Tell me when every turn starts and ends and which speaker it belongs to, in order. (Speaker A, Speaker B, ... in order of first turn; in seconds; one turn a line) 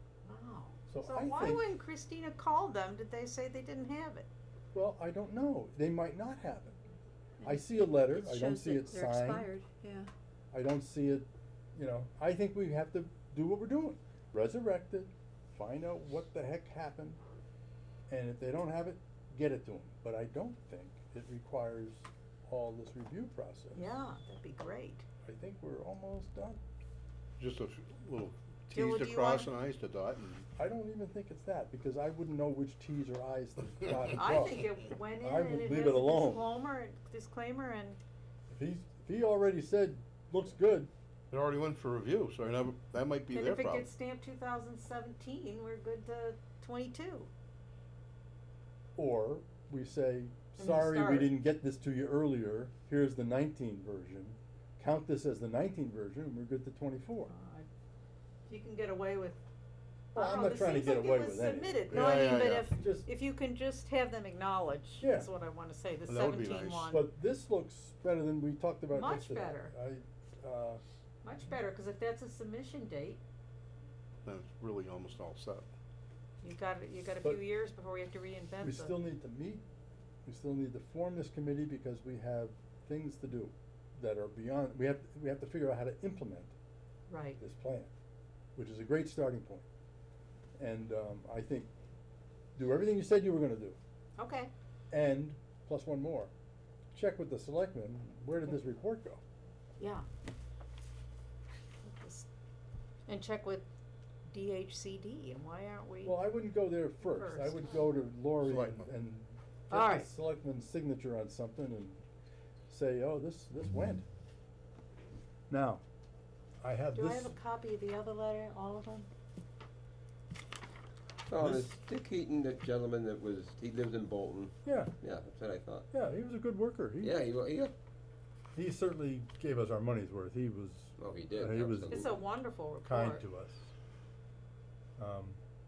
Speaker A: 0.2-4.3
Speaker B: 0.9-1.6
Speaker B: 4.7-6.8
Speaker B: 7.4-9.5
Speaker C: 7.4-10.1
Speaker B: 10.5-17.2
Speaker B: 18.1-23.9
Speaker A: 23.7-25.1
Speaker B: 25.2-26.6
Speaker D: 27.4-30.4
Speaker A: 28.7-29.5
Speaker B: 30.6-34.6
Speaker A: 34.1-38.0
Speaker B: 35.2-36.4
Speaker B: 38.5-40.9
Speaker D: 41.3-43.9
Speaker A: 43.3-47.3
Speaker B: 49.0-57.3
Speaker A: 50.6-51.3
Speaker A: 57.3-57.7
Speaker A: 58.5-59.4
Speaker A: 60.1-67.0
Speaker B: 60.1-63.1
Speaker D: 61.9-62.7
Speaker B: 65.0-65.3
Speaker D: 66.1-67.0
Speaker B: 66.9-70.8
Speaker A: 68.9-69.7
Speaker A: 71.2-73.2
Speaker D: 74.2-75.7
Speaker A: 76.4-79.0
Speaker B: 78.6-79.6
Speaker B: 80.2-86.5
Speaker A: 87.1-87.4
Speaker B: 87.4-87.9
Speaker B: 88.5-89.6
Speaker B: 90.6-91.7
Speaker B: 92.5-93.8
Speaker A: 94.2-94.5
Speaker B: 94.9-96.3
Speaker B: 96.9-99.2
Speaker A: 99.8-100.0
Speaker A: 101.8-102.3
Speaker A: 103.1-103.6
Speaker A: 104.3-106.2
Speaker B: 106.0-112.0
Speaker A: 107.0-107.8
Speaker D: 108.4-108.9
Speaker A: 109.7-110.1
Speaker B: 112.7-114.0
Speaker B: 115.5-115.8
Speaker B: 116.6-117.3
Speaker A: 116.9-119.1
Speaker E: 121.2-124.5
Speaker B: 124.6-124.9
Speaker E: 125.0-125.8
Speaker B: 125.9-127.1
Speaker E: 127.0-127.7
Speaker B: 128.5-132.2
Speaker E: 131.0-132.1
Speaker A: 131.9-133.2
Speaker B: 132.8-133.7
Speaker B: 135.0-135.4